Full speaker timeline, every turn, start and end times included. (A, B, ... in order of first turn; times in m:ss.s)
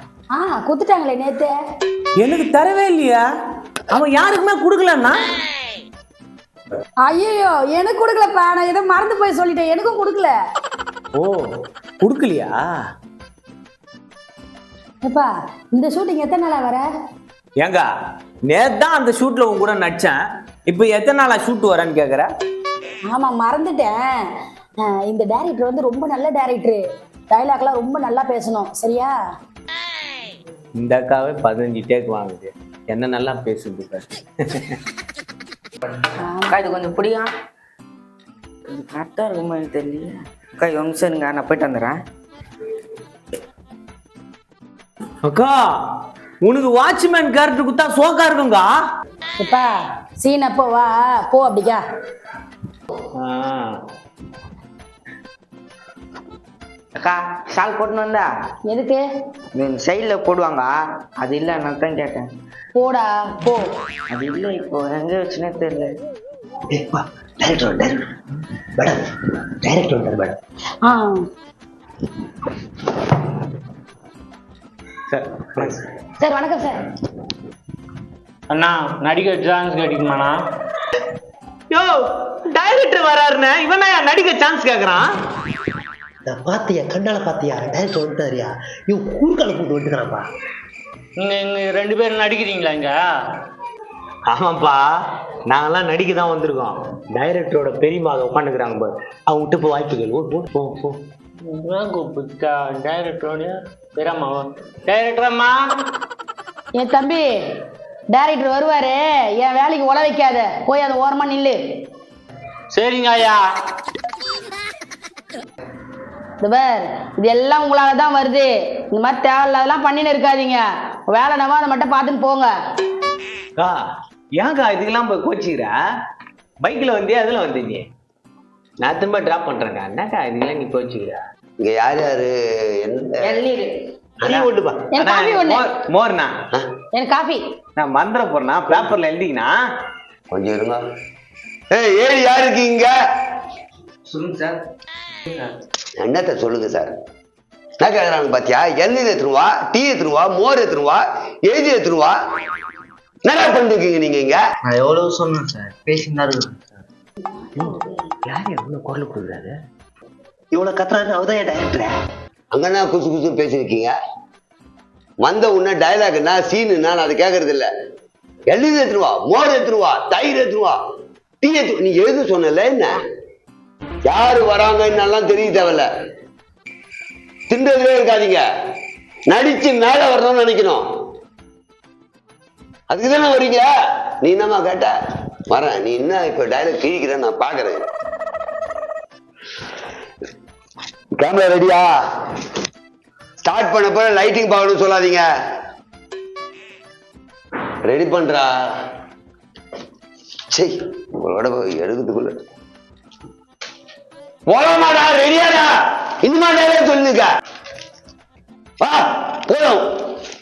0:00.3-0:01.5 A
0:02.2-0:03.2 B
0:03.9-0:05.2 B
0:07.0-0:10.3 A
0:11.2-0:11.5 B
0:12.0-0:12.6 B
0:15.0-0:16.9 A
0:17.6-0:17.9 B
0:18.5-0:20.1 B
0:20.7-0:22.3 B
0:23.1-0:24.1 A
0:24.8-0:29.1 A
0:30.8-0:34.8 B
0:36.4-0:37.3 C
0:38.7-0:42.0 C
0:45.2-0:45.6 B
0:46.4-0:48.7 B
0:49.4-0:51.8 A
0:53.2-0:53.7 B
0:57.0-0:58.3 C
0:58.7-0:59.0 A
0:59.5-1:02.3 C
1:02.7-1:03.7 A
1:04.1-1:05.9 C
1:06.7-1:08.1 D
1:09.6-1:10.4 D
1:10.8-1:11.2 A
1:15.1-1:15.8 B
1:16.2-1:16.8 A
1:18.5-1:20.4 E
1:21.7-1:25.1 B
1:26.2-1:30.2 D
1:31.2-1:33.0 E
1:34.3-1:34.9 B
1:35.5-1:41.0 B
1:41.4-1:45.6 E
1:46.8-1:47.2 A
1:48.1-1:51.6 A
1:52.7-1:53.4 E
1:56.4-2:02.5 A
2:04.4-2:05.7 B
2:06.6-2:07.9 B
2:08.8-2:11.2 B
2:11.6-2:13.5 F
2:13.2-2:13.7 C
2:14.2-2:16.3 B
2:14.3-2:14.5 F
2:14.9-2:15.7 A
2:16.9-2:17.4 A
2:17.8-2:19.5 B
2:20.3-2:20.8 F
2:21.7-2:22.9 F
2:24.1-2:24.6 C
2:26.0-2:26.9 F
2:27.8-2:32.2 F
2:33.2-2:34.4 F
2:34.7-2:36.6 C
2:38.2-2:39.5 D
2:40.5-2:42.0 D
2:42.5-2:43.9 F
2:45.2-2:47.7 F
2:48.5-2:50.8 F
2:51.4-2:53.0 F
2:54.0-2:55.9 F
2:57.5-2:58.4 F
2:59.3-3:00.8 F
3:02.9-3:03.7 F
3:04.2-3:04.9 F
3:05.5-3:07.8 F
3:11.2-3:12.2 F
3:13.4-3:15.3 F
3:17.8-3:18.5 F
3:20.5-3:22.3 F
3:24.5-3:27.3 F
3:28.8-3:30.0 F